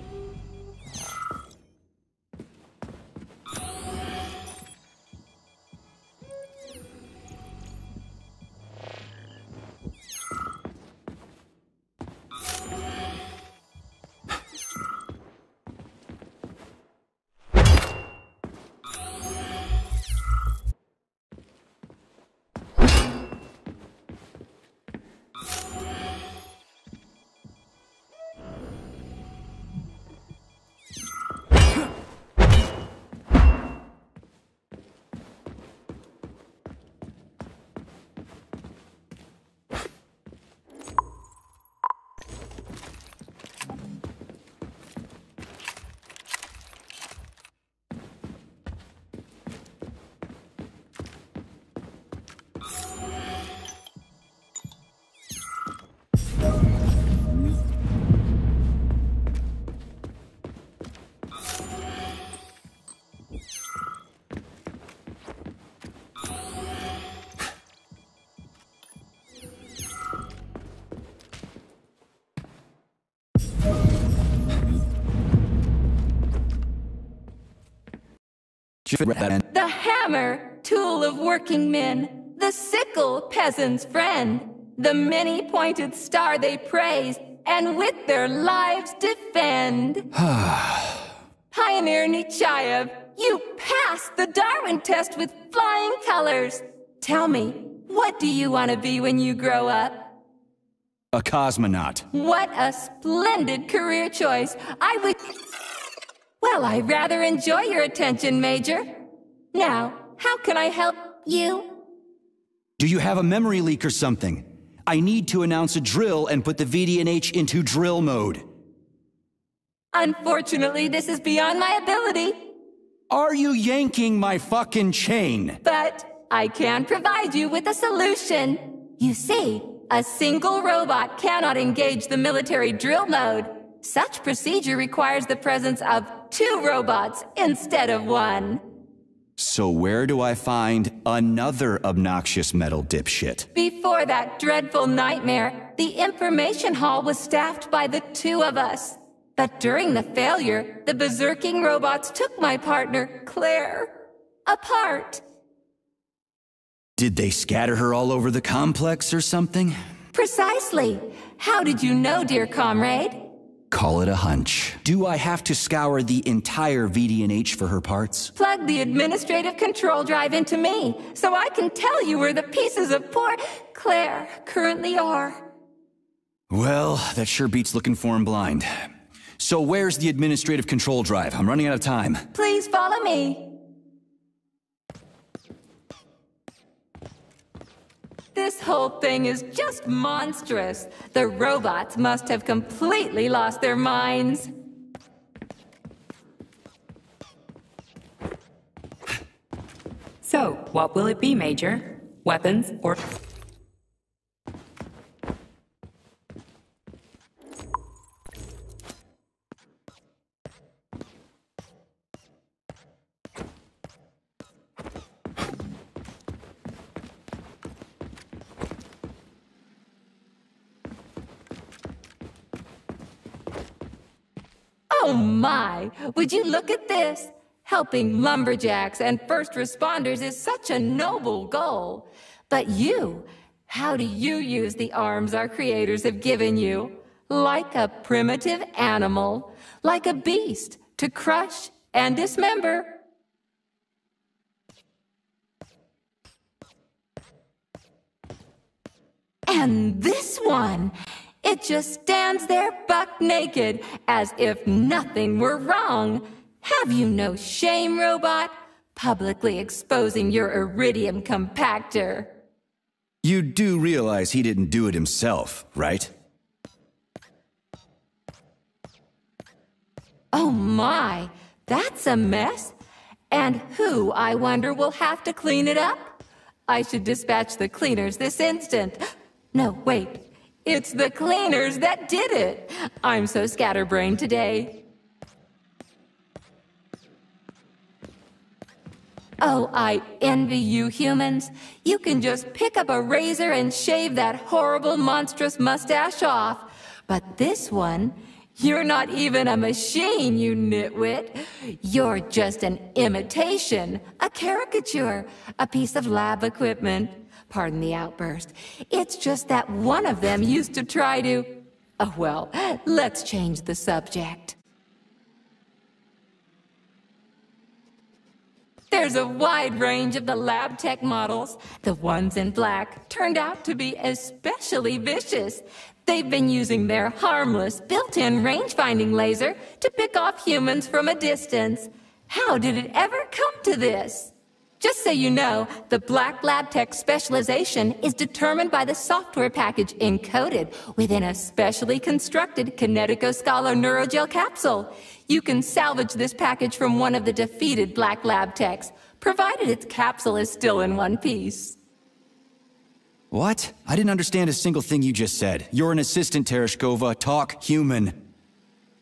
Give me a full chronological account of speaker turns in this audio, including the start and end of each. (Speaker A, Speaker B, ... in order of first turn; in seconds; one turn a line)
Speaker A: 78.9-79.4
Speaker B: 79.5-90.1
Speaker A: 90.2-91.1
Speaker B: 91.5-100.1
Speaker A: 101.1-102.1
Speaker B: 102.1-105.3
Speaker B: 106.4-109.0
Speaker B: 109.5-111.8
Speaker A: 112.8-118.5
Speaker B: 119.9-122.5
Speaker A: 123.1-125.6
Speaker B: 125.6-138.6
Speaker A: 139.4-143.5
Speaker B: 143.5-153.9
Speaker B: 154.5-155.2
Speaker A: 157.0-159.8
Speaker B: 160.1-163.2
Speaker A: 163.7-168.3
Speaker B: 168.4-175.5
Speaker A: 176.5-178.7
Speaker A: 179.4-182.2
Speaker B: 182.3-183.5
Speaker B: 188.3-194.5
Speaker C: 200.2-203.0
Speaker B: 224.9-243.0
Speaker B: 249.5-262.3
Speaker A: 263.2-266.1
Speaker B: 270.3-272.8
Speaker B: 273.3-279.0
Speaker B: 279.5-284.9
Speaker B: 289.4-314.6
Speaker B: 318.9-351.8
Speaker A: 353.3-358.2